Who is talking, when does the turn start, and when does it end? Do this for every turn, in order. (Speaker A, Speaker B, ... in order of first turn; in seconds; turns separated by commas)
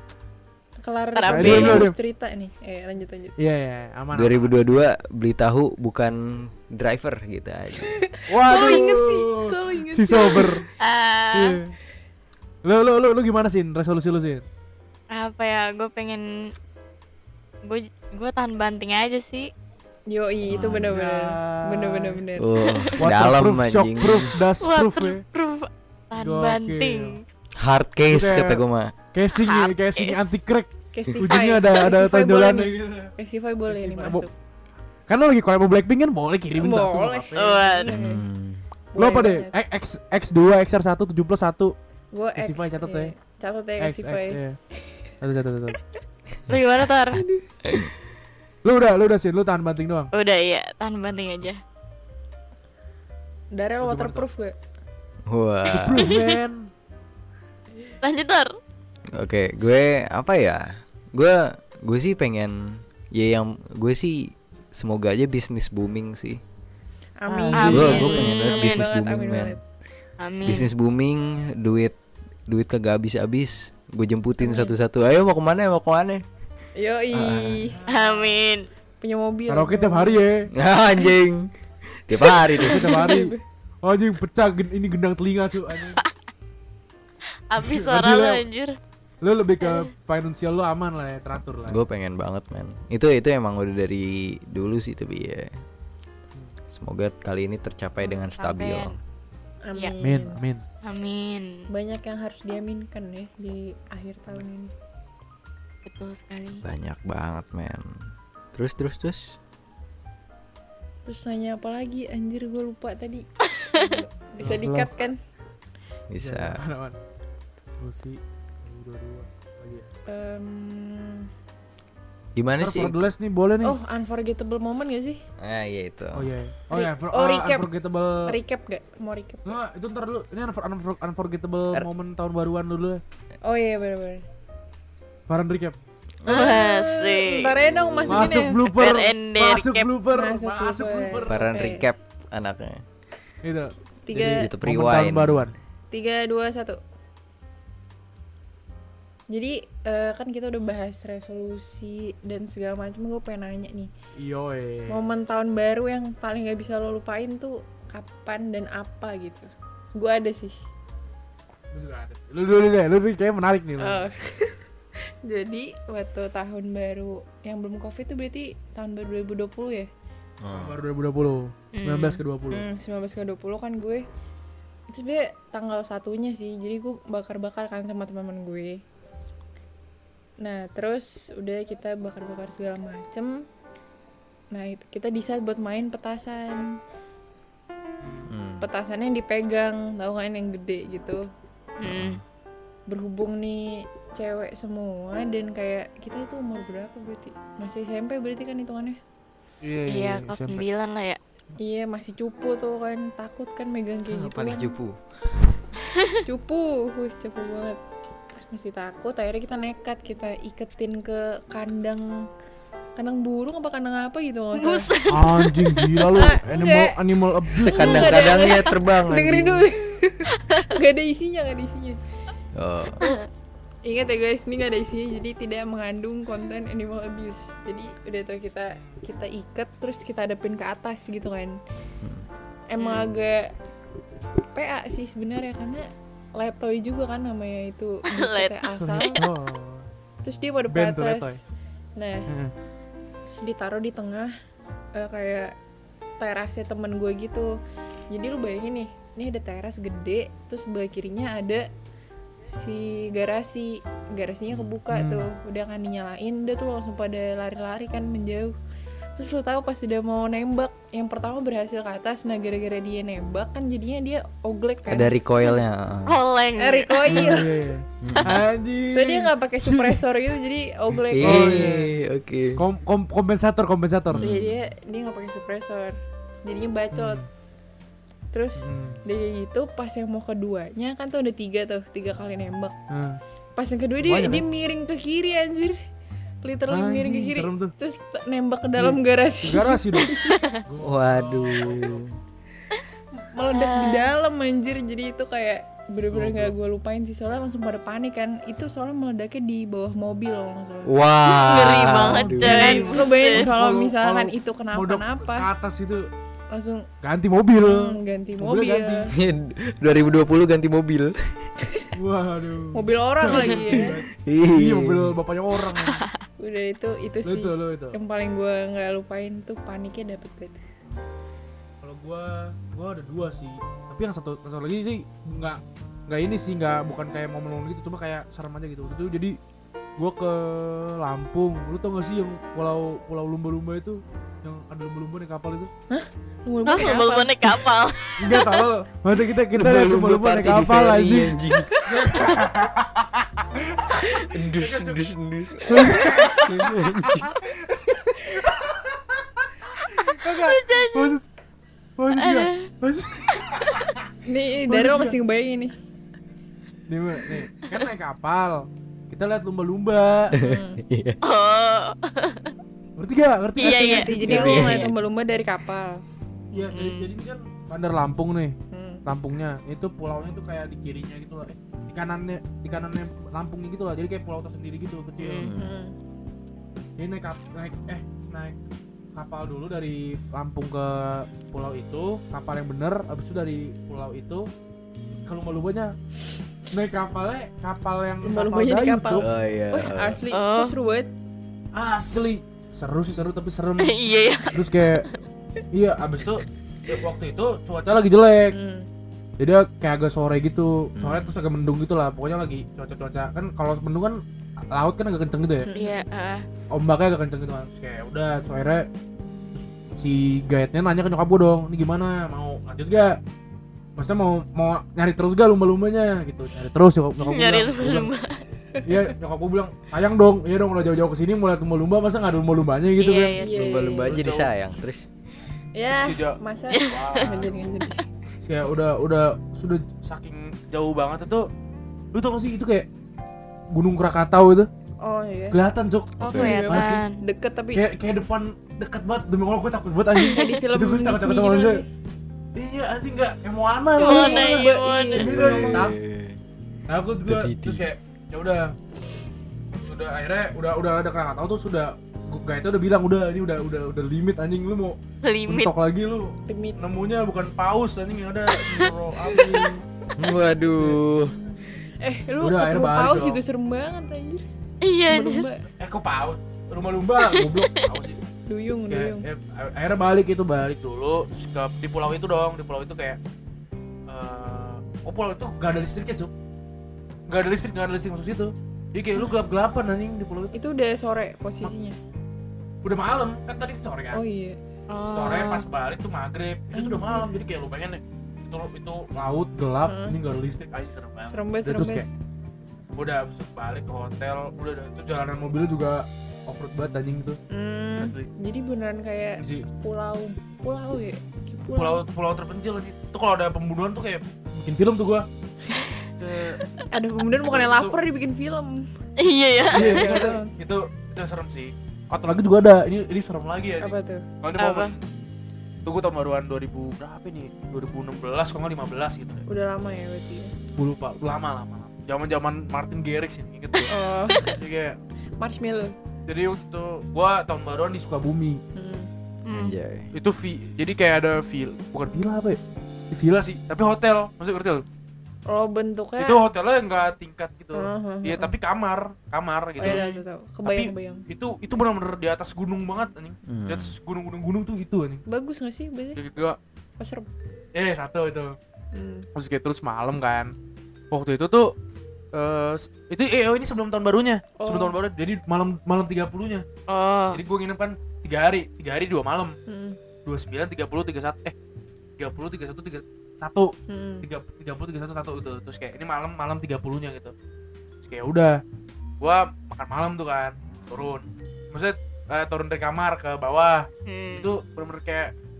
Speaker A: 0.8-3.4, Speaker B: 1.1-1.9, Speaker C: 1.3-2.0, Speaker C: 3.4-4.8, Speaker D: 4.1-7.9, Speaker A: 8.0-10.6, Speaker C: 8.3-10.7, Speaker B: 10.8-11.6, Speaker C: 11.3-11.8, Speaker C: 12.6-14.4, Speaker B: 15.1-16.2, Speaker B: 17.6-19.5, Speaker A: 20.1-22.6, Speaker D: 20.5-20.9, Speaker C: 20.5-22.2, Speaker D: 22.4-24.3, Speaker C: 23.0-25.2, Speaker B: 24.6-27.2, Speaker C: 26.1-27.2, Speaker D: 27.6-28.9, Speaker C: 28.1-33.1, Speaker B: 29.3-30.2, Speaker A: 30.9-34.3, Speaker C: 33.7-34.3, Speaker C: 35.1-37.6, Speaker A: 36.6-38.2, Speaker B: 37.4-37.9, Speaker D: 37.9-38.6, Speaker A: 38.9-39.6, Speaker C: 39.0-41.8, Speaker A: 42.1-44.4, Speaker C: 42.4-43.1, Speaker C: 43.8-44.6, Speaker C: 45.2-45.8, Speaker B: 46.5-47.2, Speaker D: 47.6-47.9, Speaker C: 48.6-50.1, Speaker B: 50.1-51.6, Speaker A: 53.5-54.5, Speaker C: 53.8-54.3, Speaker D: 55.3-56.1, Speaker C: 55.7-56.7, Speaker B: 58.0-58.5, Speaker D: 59.1-66.4, Speaker A: 67.2-69.6, Speaker C: 67.3-68.3, Speaker B: 67.5-68.9, Speaker D: 67.7-69.6, Speaker B: 70.2-70.7, Speaker D: 70.4-72.0, Speaker D: 72.5-76.2, Speaker A: 74.4-74.8, Speaker A: 76.8-77.8, Speaker D: 77.1-77.7, Speaker C: 77.7-78.4, Speaker B: 77.9-78.6, Speaker A: 79.0-80.3, Speaker C: 79.5-80.5, Speaker D: 80.5-83.1, Speaker C: 82.5-86.0, Speaker A: 82.6-83.4, Speaker B: 87.5-88.8, Speaker C: 87.6-88.4, Speaker C: 89.2-91.8, Speaker D: 91.6-95.5, Speaker D: 96.7-99.0, Speaker B: 98.0-99.0, Speaker A: 99.6-100.4, Speaker C: 100.0-100.6, Speaker B: 100.8-101.7, Speaker A: 101.7-104.7, Speaker B: 105.8-106.6, Speaker D: 106.6-109.4, Speaker A: 111.1-115.2, Speaker C: 114.4-114.9, Speaker D: 116.1-116.6, Speaker C: 116.2-117.0, Speaker C: 117.7-119.9, Speaker A: 120.1-121.3, Speaker D: 122.4-123.0, Speaker C: 122.6-123.8, Speaker A: 123.6-125.2, Speaker D: 125.4-126.3, Speaker C: 126.1-128.4, Speaker A: 126.7-127.7, Speaker A: 128.2-129.6, Speaker C: 129.4-133.0, Speaker A: 133.4-134.2, Speaker C: 135.3-135.8, Speaker A: 136.2-138.6, Speaker B: 136.3-137.6, Speaker D: 137.6-138.5, Speaker C: 138.1-141.5, Speaker B: 138.6-139.9, Speaker A: 140.1-141.9, Speaker D: 141.3-142.8, Speaker C: 143.4-145.6, Speaker A: 144.1-144.5, Speaker D: 144.2-145.5, Speaker A: 145.9-146.8, Speaker A: 149.3-153.9, Speaker C: 154.2-155.0, Speaker A: 154.9-160.6, Speaker C: 161.7-164.1, Speaker A: 163.8-164.6, Speaker A: 165.2-169.9, Speaker D: 170.4-170.8, Speaker C: 170.5-172.7, Speaker B: 171.7-172.2, Speaker A: 172.5-174.1, Speaker A: 174.9-178.8, Speaker A: 180.4-183.4, Speaker A: 184.5-186.8, Speaker C: 188.0-188.3, Speaker D: 188.3-188.7, Speaker A: 188.6-191.2, Speaker B: 191.8-192.2, Speaker D: 191.8-192.2, Speaker A: 192.9-199.0, Speaker C: 199.6-200.6, Speaker B: 199.9-201.2, Speaker A: 201.6-204.8, Speaker D: 204.1-205.0, Speaker A: 206.3-207.8, Speaker A: 208.3-212.3, Speaker A: 213.0-214.9, Speaker B: 214.5-215.8, Speaker C: 215.1-218.2, Speaker A: 216.1-217.0, Speaker A: 217.5-222.0, Speaker D: 217.6-219.7, Speaker D: 222.6-223.1, Speaker A: 223.8-231.6, Speaker D: 232.0-232.3, Speaker A: 232.7-233.5, Speaker B: 232.8-233.1, Speaker A: 234.6-239.2, Speaker B: 238.1-239.2, Speaker C: 238.8-239.9, Speaker A: 240.2-241.4, Speaker C: 240.7-241.4, Speaker A: 242.0-242.3, Speaker C: 242.3-242.5, Speaker A: 243.3-244.3, Speaker A: 244.9-245.6, Speaker A: 246.2-247.6, Speaker A: 248.1-251.7, Speaker A: 252.5-258.6, Speaker C: 254.9-255.3, Speaker A: 259.1-265.1, Speaker D: 264.9-266.2, Speaker B: 266.1-267.4, Speaker A: 266.6-267.7, Speaker C: 267.1-270.2, Speaker D: 268.0-268.4, Speaker A: 268.9-271.7, Speaker C: 271.1-271.9, Speaker D: 271.1-272.6, Speaker C: 272.6-274.2, Speaker D: 274.1-274.6, Speaker A: 274.2-277.2, Speaker C: 276.9-277.3, Speaker A: 278.3-282.8, Speaker C: 278.6-279.0, Speaker C: 282.9-283.2, Speaker A: 283.6-285.8, Speaker C: 284.0-284.4, Speaker A: 286.4-290.4, Speaker C: 286.7-287.7, Speaker C: 288.8-292.0, Speaker D: 290.8-292.2, Speaker A: 293.3-301.0, Speaker B: 293.5-294.1, Speaker C: 296.1-296.6, Speaker D: 300.9-302.8, Speaker B: 301.2-303.5, Speaker C: 302.1-306.1, Speaker A: 302.4-305.5, Speaker A: 306.5-306.9, Speaker C: 307.0-309.1, Speaker A: 307.6-309.1, Speaker D: 309.1-311.7, Speaker C: 311.9-316.1, Speaker A: 312.7-314.0, Speaker D: 313.4-315.1, Speaker B: 315.8-316.1, Speaker A: 316.4-320.6, Speaker C: 317.2-318.0, Speaker C: 321.8-329.4, Speaker C: 330.0-335.7, Speaker A: 335.9-337.6, Speaker B: 336.6-338.6, Speaker C: 338.2-345.0, Speaker D: 339.5-341.8, Speaker A: 341.7-342.2, Speaker D: 344.0-347.3, Speaker C: 345.7-351.2, Speaker B: 350.3-351.1, Speaker C: 352.0-354.1, Speaker B: 352.1-352.7, Speaker A: 354.2-355.8, Speaker C: 354.6-355.2, Speaker C: 356.9-360.3, Speaker D: 360.3-361.2, Speaker A: 360.4-360.8, Speaker B: 361.2-362.5, Speaker C: 363.0-364.9, Speaker B: 363.6-364.9, Speaker A: 363.6-366.0, Speaker D: 364.2-364.9, Speaker C: 366.5-375.5, Speaker B: 366.6-367.1, Speaker A: 368.7-369.0, Speaker B: 375.2-375.5, Speaker D: 375.4-375.8, Speaker A: 375.6-376.0, Speaker C: 377.0-378.6, Speaker C: 379.1-384.5, Speaker C: 385.2-385.9, Speaker C: 386.7-389.3, Speaker A: 388.2-391.1, Speaker D: 389.1-390.2, Speaker B: 390.3-390.7, Speaker C: 391.7-393.9, Speaker B: 393.8-395.1, Speaker C: 394.5-395.1, Speaker C: 395.7-398.6, Speaker A: 398.5-398.9, Speaker C: 399.4-405.7, Speaker D: 401.0-401.4, Speaker A: 405.6-406.0, Speaker B: 405.8-406.4, Speaker C: 406.7-408.9, Speaker C: 409.5-413.2, Speaker C: 414.0-418.1, Speaker B: 417.2-418.4, Speaker C: 418.9-423.4, Speaker B: 423.0-423.7, Speaker A: 423.4-424.1, Speaker D: 423.5-425.1, Speaker C: 424.0-424.7, Speaker A: 425.8-428.1, Speaker C: 425.9-427.6, Speaker B: 426.7-427.5, Speaker C: 428.4-431.5, Speaker C: 432.1-432.9, Speaker C: 433.7-434.7, Speaker A: 435.0-435.6, Speaker C: 435.5-437.1, Speaker D: 436.2-436.6, Speaker B: 436.2-437.1, Speaker A: 436.3-437.8, Speaker C: 437.7-441.8, Speaker A: 440.2-441.9, Speaker C: 442.6-446.0, Speaker B: 444.0-445.3, Speaker A: 444.0-445.9, Speaker D: 445.2-446.4, Speaker C: 446.9-448.8, Speaker D: 447.2-447.9, Speaker C: 449.7-459.8, Speaker B: 455.2-455.7, Speaker A: 456.5-456.8, Speaker B: 458.7-459.4, Speaker D: 460.2-461.4, Speaker C: 460.6-461.0, Speaker A: 461.3-464.5, Speaker C: 462.4-463.4, Speaker B: 464.8-465.5, Speaker A: 465.1-465.6, Speaker C: 465.8-468.2, Speaker B: 467.2-467.7, Speaker A: 468.5-469.3, Speaker C: 468.8-473.2, Speaker C: 474.1-476.3, Speaker C: 477.3-480.5, Speaker A: 480.5-482.0, Speaker C: 482.8-484.2, Speaker A: 484.1-484.6, Speaker B: 484.9-485.7, Speaker C: 484.9-492.1, Speaker A: 486.7-487.3, Speaker A: 489.9-490.2, Speaker A: 491.3-492.1, Speaker C: 493.0-497.4, Speaker A: 497.5-502.0, Speaker C: 498.0-498.3, Speaker C: 499.4-499.7, Speaker C: 501.8-505.3, Speaker C: 506.2-506.6, Speaker A: 506.9-508.9, Speaker C: 507.4-508.0, Speaker B: 509.2-510.3, Speaker C: 509.7-515.0, Speaker A: 509.7-510.5, Speaker A: 513.8-514.2, Speaker B: 514.6-514.9, Speaker C: 515.8-519.4, Speaker A: 519.5-520.5, Speaker C: 520.8-525.0, Speaker A: 523.9-524.6, Speaker A: 525.4-525.9, Speaker C: 526.3-528.6, Speaker A: 528.8-529.1, Speaker B: 529.5-529.8, Speaker D: 529.5-530.1, Speaker C: 530.1-532.6, Speaker C: 533.1-534.9, Speaker A: 535.5-536.4, Speaker C: 536.2-540.0, Speaker A: 537.7-538.5, Speaker A: 539.8-541.3, Speaker B: 539.8-540.2, Speaker C: 540.6-545.2, Speaker D: 543.5-544.0, Speaker A: 545.3-546.2, Speaker C: 546.1-546.6, Speaker A: 547.0-547.3, Speaker C: 547.7-548.6, Speaker A: 548.9-549.3, Speaker C: 549.4-550.5, Speaker C: 551.1-551.7, Speaker C: 552.3-556.6, Speaker A: 554.6-555.0, Speaker B: 556.9-557.4, Speaker C: 557.3-559.6, Speaker A: 559.7-560.0, Speaker C: 560.2-561.5, Speaker C: 562.2-567.3, Speaker A: 563.9-564.3, Speaker C: 568.0-568.6, Speaker C: 569.2-575.3, Speaker B: 574.1-574.5